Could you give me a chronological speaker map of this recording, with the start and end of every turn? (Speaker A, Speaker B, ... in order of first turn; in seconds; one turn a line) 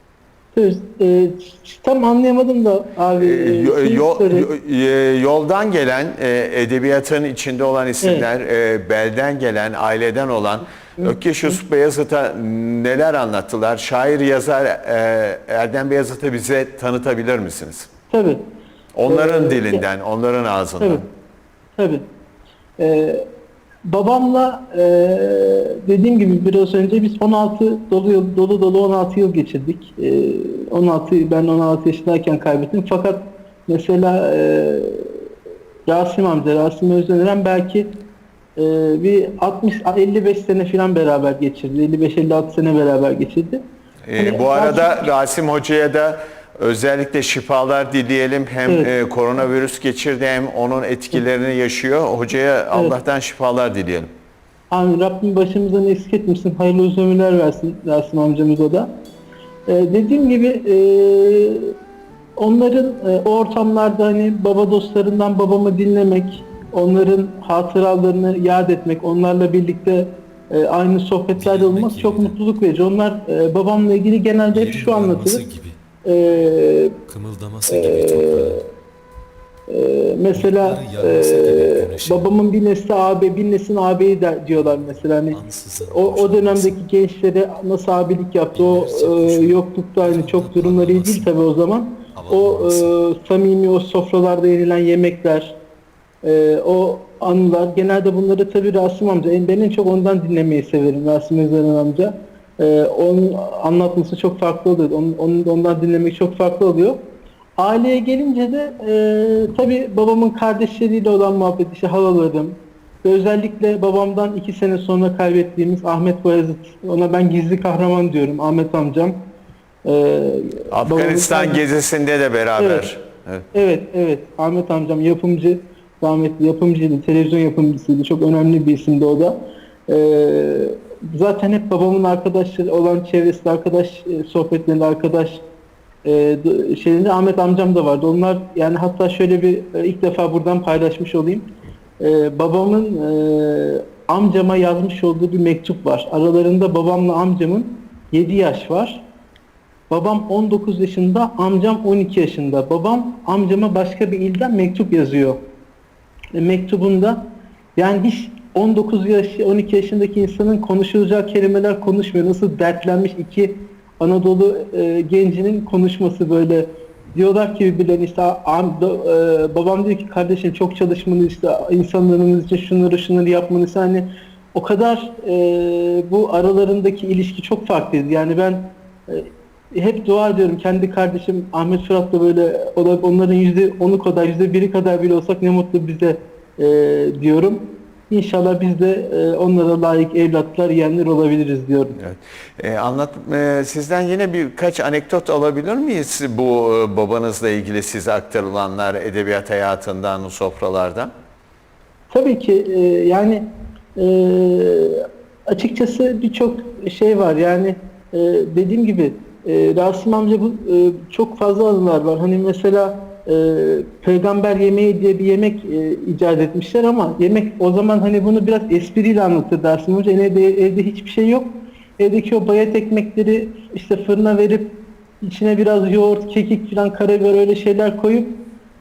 Speaker A: 0.5-4.5
Speaker B: 3.2-17.9
Speaker A: 11.0-11.6
Speaker A: 18.1-18.4
Speaker B: 18.9-21.0
Speaker A: 19.1-19.8
Speaker A: 21.8-22.0
Speaker A: 22.8-23.2
Speaker A: 23.9-35.2
Speaker A: 35.9-38.0
Speaker A: 38.6-43.6
Speaker B: 44.1-54.1
Speaker A: 44.2-45.0
Speaker A: 54.7-58.9
Speaker A: 59.7-61.7
Speaker A: 62.4-75.4
Speaker C: 71.3-72.3
Speaker C: 74.5-75.8
Speaker A: 76.0-77.0
Speaker C: 77.1-78.7
Speaker A: 77.7-78.6
Speaker A: 79.7-95.5
Speaker C: 80.3-82.3
Speaker C: 84.5-86.8
Speaker C: 88.5-91.3
Speaker C: 92.1-93.0
Speaker A: 96.2-107.0
Speaker A: 107.6-119.2
Speaker A: 119.8-121.6
Speaker B: 120.7-123.5
Speaker A: 122.6-122.9
Speaker A: 123.5-135.4
Speaker A: 136.0-141.4
Speaker A: 142.0-149.0
Speaker A: 149.9-155.4
Speaker A: 156.3-191.9
Speaker B: 192.0-201.1
Speaker A: 202.1-228.3